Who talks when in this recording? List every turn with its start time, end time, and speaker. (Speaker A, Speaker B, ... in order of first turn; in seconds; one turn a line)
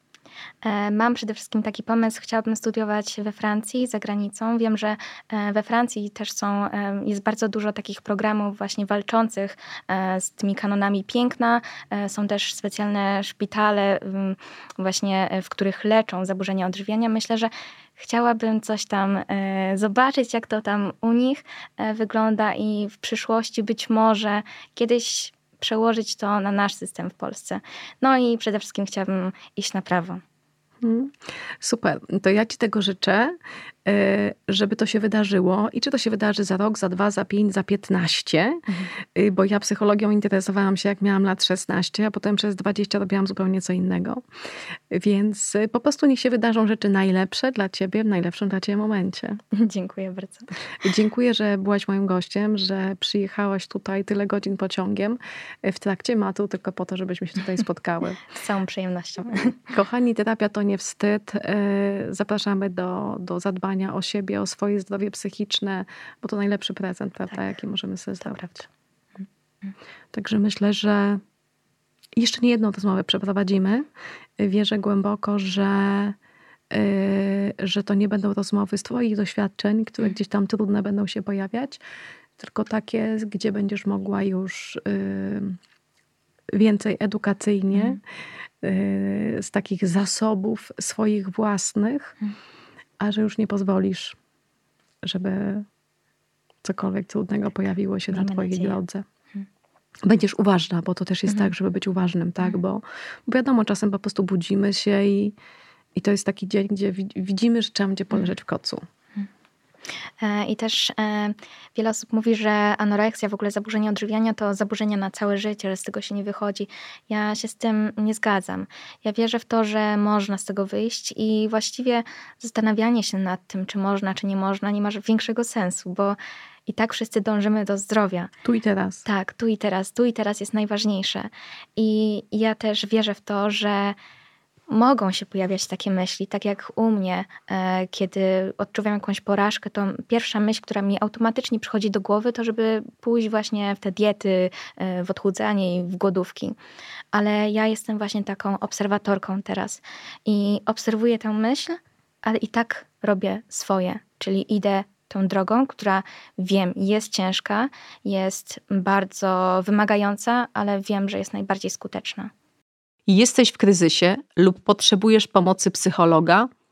Speaker A: 0.6-30.2
Speaker B: 30.8-44.2
Speaker B: 44.9-49.4
Speaker A: 49.5-50.5
Speaker B: 50.8-58.2
Speaker A: 58.3-59.6
Speaker B: 59.6-68.5
Speaker A: 68.2-68.7
Speaker B: 70.1-71.2
Speaker B: 72.2-73.9
Speaker B: 74.4-76.2
Speaker B: 76.7-81.8
Speaker B: 82.4-85.6
Speaker B: 86.5-88.0
Speaker B: 88.6-92.1
Speaker B: 93.0-94.2
Speaker B: 95.0-95.7
Speaker B: 96.6-99.0
Speaker A: 98.1-98.8
Speaker B: 100.0-105.3
Speaker B: 105.9-108.8
Speaker A: 110.2-128.3
Speaker B: 128.4-129.0
Speaker A: 129.1-134.0
Speaker A: 134.7-146.6
Speaker A: 147.1-162.3
Speaker B: 163.1-166.5